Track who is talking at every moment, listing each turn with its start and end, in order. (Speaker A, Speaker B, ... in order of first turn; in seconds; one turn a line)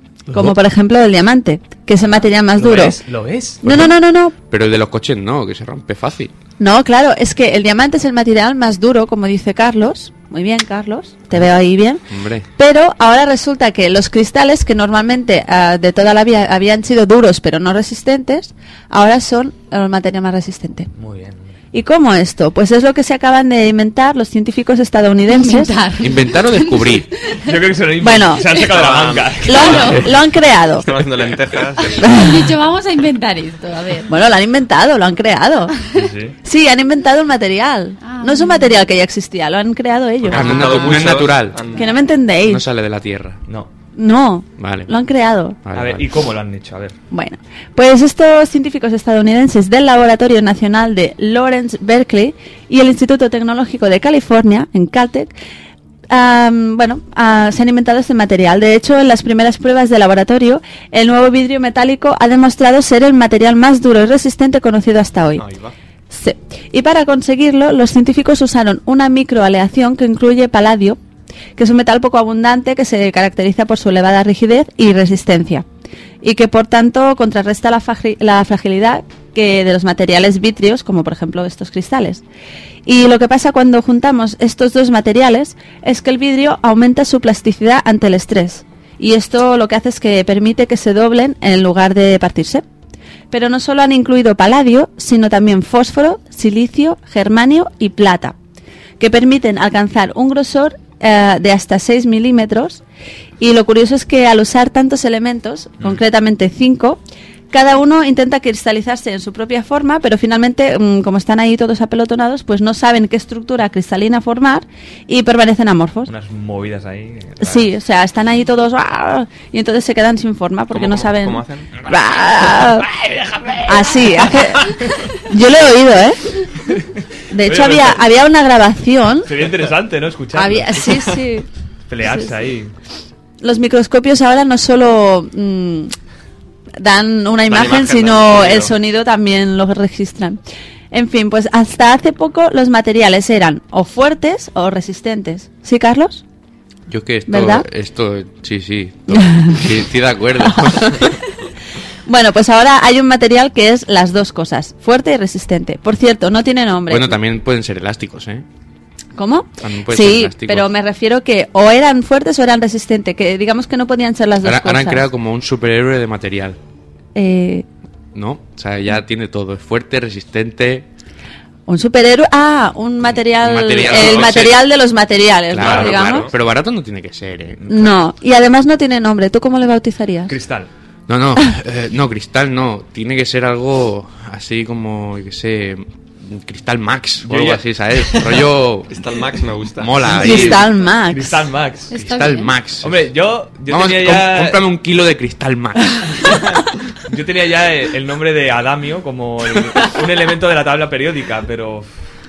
Speaker A: 0.3-3.0
Speaker B: 2.5-3.7
Speaker A: 3.6-4.3
Speaker C: 3.6-3.9
Speaker C: 4.5-6.3
Speaker A: 6.6-12.0
Speaker C: 12.1-12.5
Speaker A: 12.6-20.9
Speaker B: 20.9-21.6
Speaker A: 21.7-25.8
Speaker D: 25.3-27.1
Speaker C: 26.0-27.1
Speaker B: 27.5-29.9
Speaker A: 28.0-28.6
Speaker E: 28.7-30.1
Speaker A: 29.4-30.9
Speaker E: 30.8-32.0
Speaker A: 32.0-32.5
Speaker D: 32.1-34.1
Speaker A: 34.1-35.8
Speaker B: 35.9-36.4
Speaker A: 36.4-41.2
Speaker D: 38.0-38.8
Speaker E: 40.2-41.8
Speaker C: 40.3-41.7
Speaker A: 41.7-42.6
Speaker C: 42.4-43.4
Speaker A: 44.0-45.6
Speaker C: 44.6-44.9
Speaker C: 45.7-46.0
Speaker B: 45.7-47.0
Speaker A: 47.1-55.3
Speaker A: 56.1-65.5
Speaker E: 65.4-65.7
Speaker A: 66.1-71.0
Speaker A: 71.6-75.7
Speaker A: 76.2-82.2
Speaker A: 82.9-92.7
Speaker A: 93.3-98.3
Speaker A: 99.0-102.8
Speaker A: 103.4-107.0
Speaker A: 107.5-116.1
Speaker B: 116.1-117.7
Speaker A: 117.4-122.9
Speaker E: 120.7-121.7
Speaker B: 123.0-123.5
Speaker A: 123.6-126.2
Speaker A: 127.3-129.3
Speaker B: 127.4-128.0
Speaker B: 129.3-131.0
Speaker A: 130.3-131.5
Speaker B: 131.9-132.7
Speaker A: 132.0-132.4
Speaker A: 133.4-135.9
Speaker A: 136.8-140.4
Speaker E: 137.5-138.7
Speaker A: 140.9-146.2
Speaker C: 146.9-151.1
Speaker A: 147.3-147.7
Speaker A: 149.1-149.7
Speaker A: 150.4-150.8
Speaker A: 152.1-157.2
Speaker C: 156.9-158.4
Speaker A: 159.2-165.1
Speaker C: 159.6-160.7
Speaker C: 164.4-166.6
Speaker A: 167.2-167.7
Speaker C: 168.2-170.9
Speaker A: 171.7-176.3
Speaker C: 173.2-174.6
Speaker C: 175.5-177.6
Speaker E: 175.6-176.3
Speaker A: 177.7-180.4
Speaker B: 180.3-180.7
Speaker C: 181.1-189.0
Speaker B: 187.3-187.6
Speaker E: 188.0-190.1
Speaker C: 189.8-190.7
Speaker A: 190.1-191.5
Speaker B: 190.3-192.0
Speaker D: 191.9-192.5
Speaker C: 191.9-193.0
Speaker B: 192.8-194.7
Speaker C: 193.7-195.9
Speaker B: 197.1-201.9